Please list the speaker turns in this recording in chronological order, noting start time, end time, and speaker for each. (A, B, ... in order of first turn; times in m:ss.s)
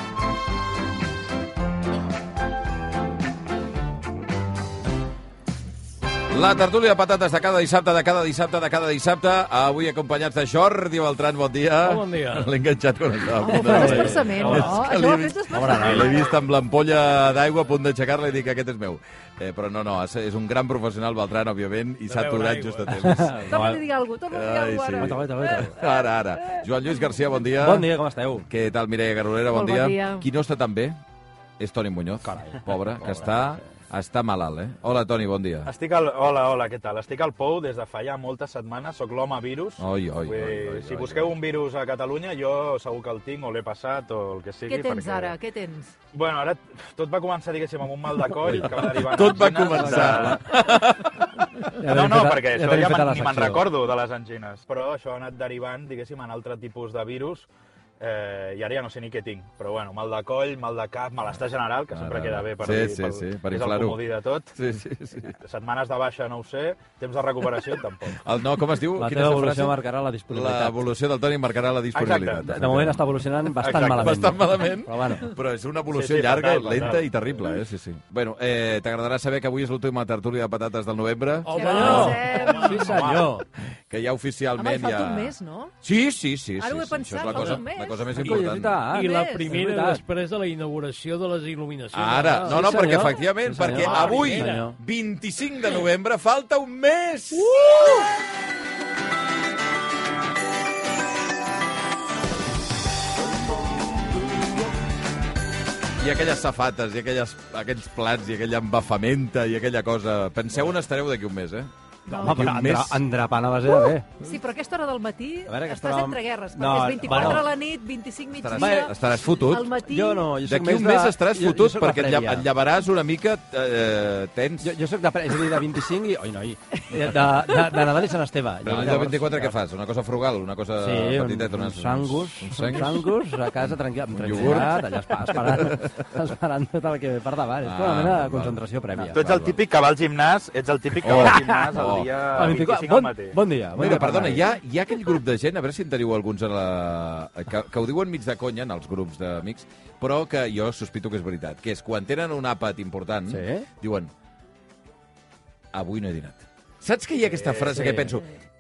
0:06.3-0:23.5 A
0:11.8-0:12.5 B
0:13.4-0:16.3 C
0:13.5-0:14.8 D
0:15.5-0:16.2 D
0:22.1-0:23.0 B
0:22.9-0:23.8 D
0:23.5-0:26.6 C
0:24.3-0:27.9 A
0:25.0-0:25.8 D
0:27.6-0:28.5 D
0:28.5-0:31.0 A
0:29.5-0:30.3 C
0:31.6-0:35.7 A
0:32.2-0:33.7 D
0:35.7-0:45.4 E
0:39.8-0:41.4 A
0:44.7-0:46.0 C
0:46.1-0:50.4 E
0:48.4-0:48.7 D
0:48.5-0:51.7 A
0:49.7-0:50.4 D
0:51.8-0:53.7 D
0:51.9-0:57.5 E
0:58.0-1:04.5 E
1:01.9-1:04.0 A
1:04.6-1:05.3 A
1:05.3-1:08.2 E
1:08.1-1:09.8 A
1:09.0-1:10.8 D
1:10.3-1:13.0 A
1:11.9-1:12.5 E
1:12.4-1:15.3 D
1:13.6-1:14.1 E
1:13.8-1:22.2 A
1:15.9-1:17.3 E
1:21.4-1:22.5 B
1:21.5-1:23.1 C
1:21.5-1:23.4 D
1:22.5-1:23.4 E
1:23.9-1:28.8 A
1:24.6-1:25.7 C
1:26.6-1:28.1 C
1:28.1-1:30.0 D
1:28.2-1:32.6 B
1:29.0-1:29.5 C
1:31.9-1:37.6 A
1:32.4-1:34.8 D
1:33.7-1:34.7 B
1:37.6-1:38.0 C
1:46.0-1:53.0 A
1:52.1-1:54.1 D
1:52.1-1:52.6 C
1:54.2-1:58.9 C
1:55.5-1:57.5 D
1:57.1-1:57.5 A
1:58.4-1:59.8 A
1:58.6-1:58.9 D
1:59.4-2:00.3 C
1:59.8-2:02.5 D
2:00.4-2:04.8 A
2:04.6-2:09.5 D
2:08.6-2:16.2 A
2:10.8-2:19.2 D
2:17.6-2:19.6 A
2:19.1-2:23.4 E
2:21.0-2:22.5 A
2:21.2-2:21.7 D
2:22.3-2:24.5 D
2:23.7-2:34.1 A
2:33.3-2:33.7 D
2:35.7-2:38.3 A
2:37.3-2:37.7 E
2:37.7-2:38.2 D